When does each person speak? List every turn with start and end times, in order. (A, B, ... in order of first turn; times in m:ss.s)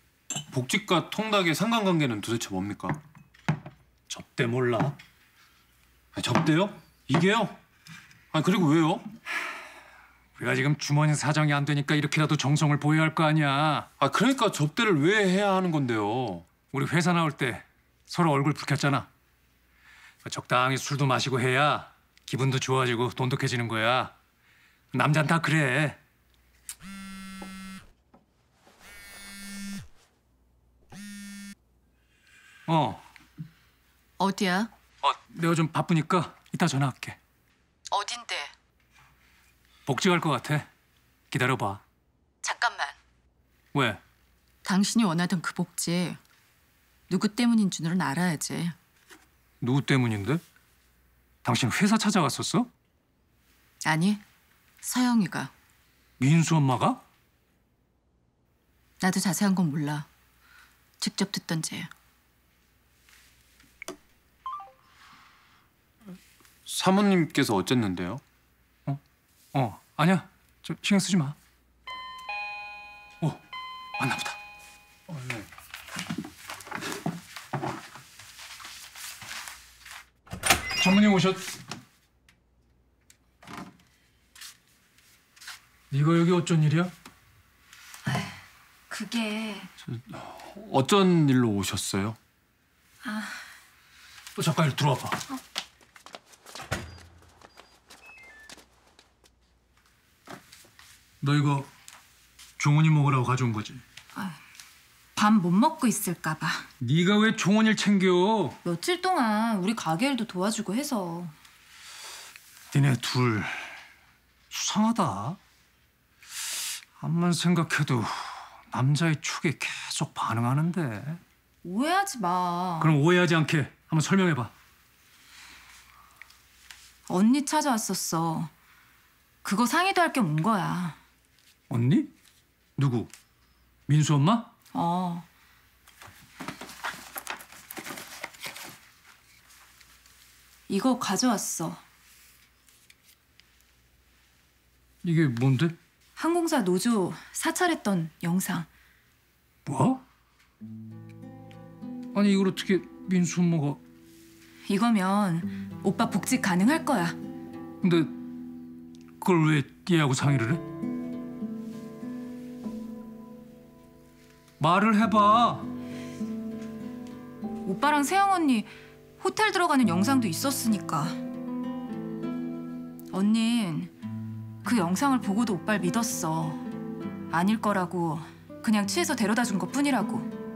0:00.5-0:03.0 A
0:04.1-0:05.0 B
0:06.1-0:07.6 A
0:08.3-0:09.1 A
0:10.4-0:13.9 B
0:14.0-0:16.5 A
0:16.7-0:19.1 B
0:20.2-0:24.1 B
0:24.9-0:26.0 B
0:32.7-0:33.0 B
0:34.2-0:34.7 C
0:35.0-0:37.2 B
0:37.9-0:38.5 C
0:39.9-0:40.7 B
0:41.3-0:41.8 B
0:42.4-0:43.0 C
0:43.7-0:44.0 B
0:44.6-0:46.2 C
0:47.1-0:48.8 C
0:49.6-0:50.4 B
0:51.4-0:52.7 B
0:53.8-0:54.2 C
0:54.8-0:55.5 C
0:56.2-0:57.0 B
0:59.0-1:00.1 C
1:01.0-1:01.9 C
1:06.7-1:08.2 A
1:09.5-1:11.4 B
1:14.0-1:14.4 B
1:15.1-1:15.5 A
1:20.8-1:21.4 B
1:25.9-1:26.9 B
1:28.0-1:29.7 D
1:29.9-1:32.2 A
1:33.0-1:33.4 D
1:34.4-1:35.2 B
1:41.2-1:41.7 B
1:42.6-1:43.8 B
1:44.1-1:44.4 D
1:45.1-1:46.7 D
1:46.8-1:48.6 B
1:48.6-1:51.3 D
1:52.7-1:53.7 B
1:54.5-1:55.4 B
1:57.0-2:01.2 B
2:01.6-2:03.0 D
2:02.8-2:04.5 B
2:07.1-2:08.5 D
2:09.4-2:11.0 D
2:11.7-2:12.1 B
2:12.8-2:13.1 B
2:13.9-2:14.5 B
2:14.7-2:15.2 D
2:20.7-2:21.8 D
2:25.0-2:25.8 B
2:26.2-2:28.7 D
2:29.7-2:30.0 B
2:32.1-2:33.8 B
2:34.7-2:37.2 D
2:37.8-2:38.1 B
2:39.2-2:40.6 B
2:44.6-2:45.7 B
2:47.6-2:51.2 D
2:53.1-2:53.9 D
2:54.6-2:56.7 D
2:57.3-3:00.3 D